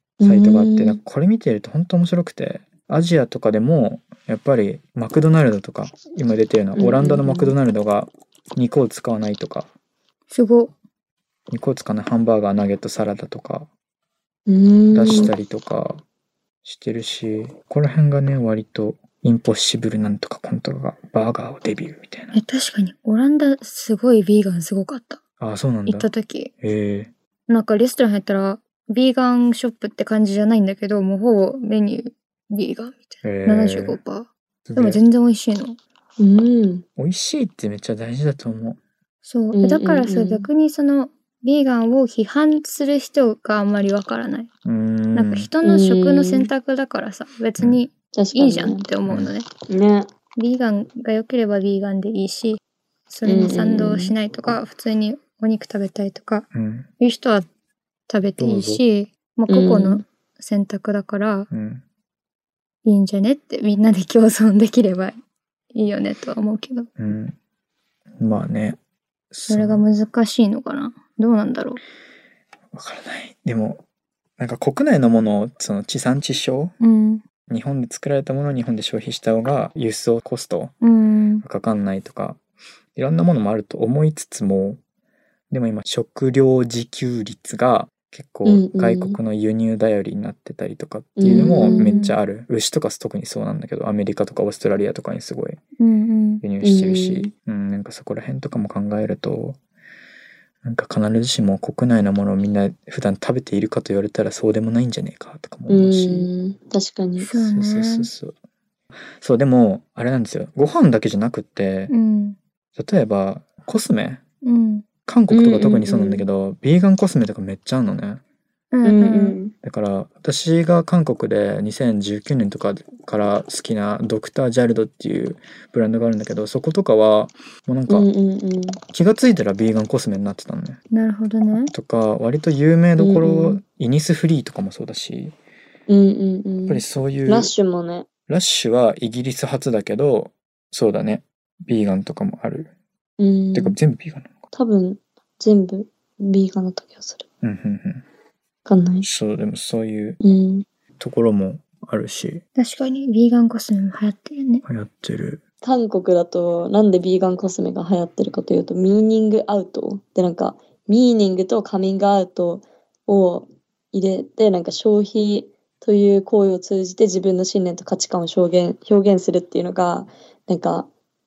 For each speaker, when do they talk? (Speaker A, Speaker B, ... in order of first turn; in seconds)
Speaker A: 0.2-1.0, 6.8-7.5, 14.5-15.3, 36.2-36.9, 39.5-40.5, 45.6-46.5, 48.1-48.9, 49.7-50.1, 53.2-54.1, 59.5-60.0, 88.5-89.2, 91.2-92.0, 96.6-97.3, 105.7-107.3, 115.3-116.3, 118.8-119.5, 127.9-128.8, 133.0-133.6, 135.9-138.1, 143.2-143.8, 144.5-147.3, 148.7-149.1, 150.2-150.7, 155.6-170.9
Speaker B: 0.2-9.7, 11.5-13.7, 14.9-16.0, 16.6-22.4, 25.4-26.1, 26.6-27.1, 33.2-34.0, 34.7-35.0, 37.0-38.8, 44.6-45.5, 56.5-56.9, 58.4-58.8, 61.5-61.8, 67.0-67.4, 68.2-68.8, 69.3-69.8, 72.7-73.8, 74.4-76.7, 77.5-80.7, 81.4-82.4, 83.0-84.8, 85.5-95.6, 96.4-99.6, 100.6-106.3, 107.3-108.3, 109.2-111.9, 112.8-114.2, 115.1-118.2, 119.6-128.1, 128.9-130.8, 131.6-135.3, 136.7-137.5, 138.3-142.7, 143.5-144.4, 147.4-148.0, 149.0-150.2, 151.0-152.4, 154.7-155.4
Speaker C: 10.3-10.7, 22.3-25.2, 25.9-26.5, 27.5-35.8, 39.3-44.5, 45.1-49.5, 50.4-52.6, 53.1-56.5, 57.0-57.5, 58.1-61.5, 62.9-65.2, 65.7-66.9, 69.5-71.8, 76.8-77.2, 80.8-81.4, 91.3-92.2, 95.8-96.4, 107.2-108.1, 111.9-112.4, 114.4-114.9, 118.7-119.4, 130.9-131.7, 152.6-154.6